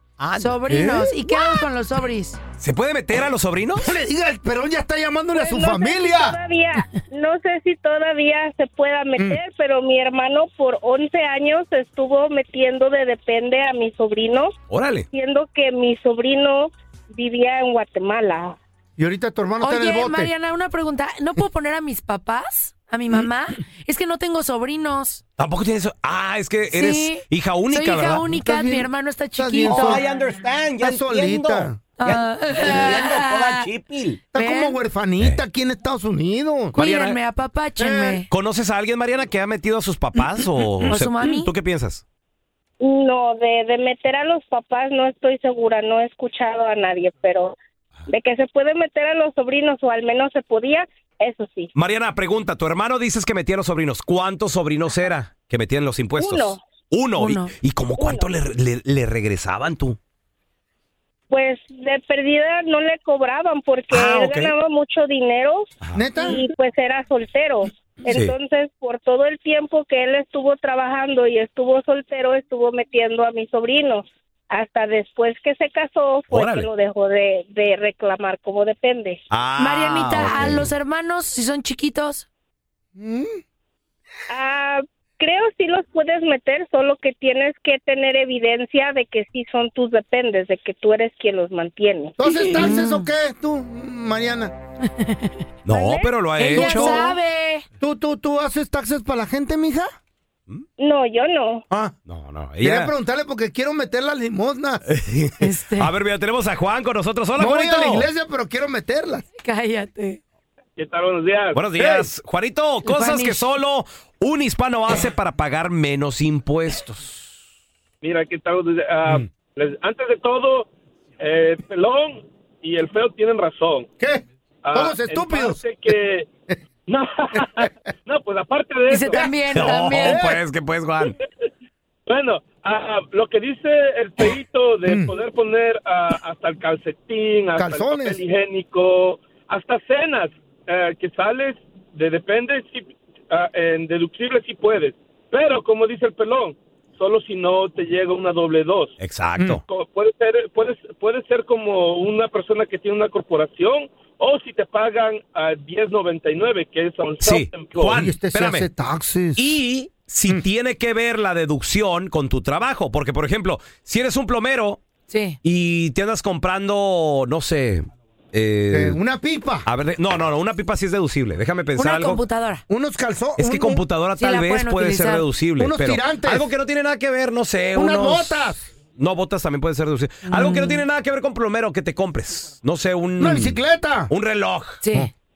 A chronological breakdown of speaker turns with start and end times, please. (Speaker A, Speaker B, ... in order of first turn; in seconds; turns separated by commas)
Speaker A: 0.2-0.6, Speaker B: 0.4-2.4, Speaker C: 0.7-1.1, Speaker A: 2.6-3.9, Speaker C: 3.8-6.4, Speaker D: 5.3-14.5, Speaker A: 14.7-15.1, Speaker D: 15.1-18.6, Speaker C: 19.0-20.3, Speaker B: 19.6-25.2, Speaker A: 25.4-28.2, Speaker B: 26.7-30.0, Speaker C: 28.3-30.1, Speaker A: 29.6-34.2, Speaker C: 30.8-31.9, Speaker B: 32.0-33.6, Speaker C: 32.6-33.0, Speaker C: 34.3-36.8, Speaker B: 34.3-34.8, Speaker B: 36.7-38.3, Speaker A: 36.8-37.2, Speaker C: 37.8-38.2, Speaker A: 38.3-42.0, Speaker B: 40.9-41.5, Speaker D: 42.8-47.5, Speaker D: 48.1-51.7, Speaker A: 51.7-60.0, Speaker D: 56.2-56.6, Speaker B: 57.2-57.5, Speaker D: 58.0-58.3, Speaker D: 61.3-79.2, Speaker A: 63.9-64.5, Speaker C: 65.9-66.4, Speaker A: 68.1-68.3, Speaker A: 76.3-76.7, Speaker A: 79.3-80.7, Speaker B: 79.6-82.2, Speaker C: 83.0-83.4, Speaker D: 84.3-92.1, Speaker C: 92.2-94.5, Speaker B: 92.2-93.1, Speaker B: 94.8-95.4, Speaker A: 95.6-97.0, Speaker D: 95.7-96.9, Speaker B: 96.4-97.6, Speaker C: 96.6-97.1, Speaker C: 97.8-99.9, Speaker D: 100.8-101.6, Speaker A: 102.1-102.9, Speaker C: 102.6-104.8, Speaker A: 104.9-108.1, Speaker B: 105.4-105.9, Speaker C: 107.4-109.2, Speaker B: 109.4-110.2, Speaker E: 110.8-111.6, Speaker A: 111.5-117.3, Speaker C: 111.8-112.1, Speaker B: 112.8-113.5, Speaker E: 118.0-123.9, Speaker E: 124.6-126.3, Speaker C: 124.7-125.6, Speaker E: 126.9-129.2, Speaker B: 128.9-130.2, Speaker A: 129.5-131.2, Speaker C: 130.0-130.4, Speaker E: 132.1-148.9, Speaker C: 134.8-135.1, Speaker C: 137.5-138.2, Speaker A: 149.0-149.6, Speaker E: 149.7-158.0, Speaker A: 157.2-158.7, Speaker C: 157.9-159.4, Speaker A: 159.3-164.8, Speaker B: 165.1-165.4, Speaker A: 165.4-169.0, Speaker C: 168.7-169.7, Speaker A: 169.7-172.2, Speaker B: 171.8-172.6, Speaker C: 172.7-173.8, Speaker A: 173.4-183.6, Speaker B: 174.2-175.2, Speaker C: 175.6-176.5, Speaker C: 177.7-178.6, Speaker B: 180.2-180.8, Speaker C: 183.2-184.1, Speaker A: 184.1-184.8, Speaker B: 184.8-185.1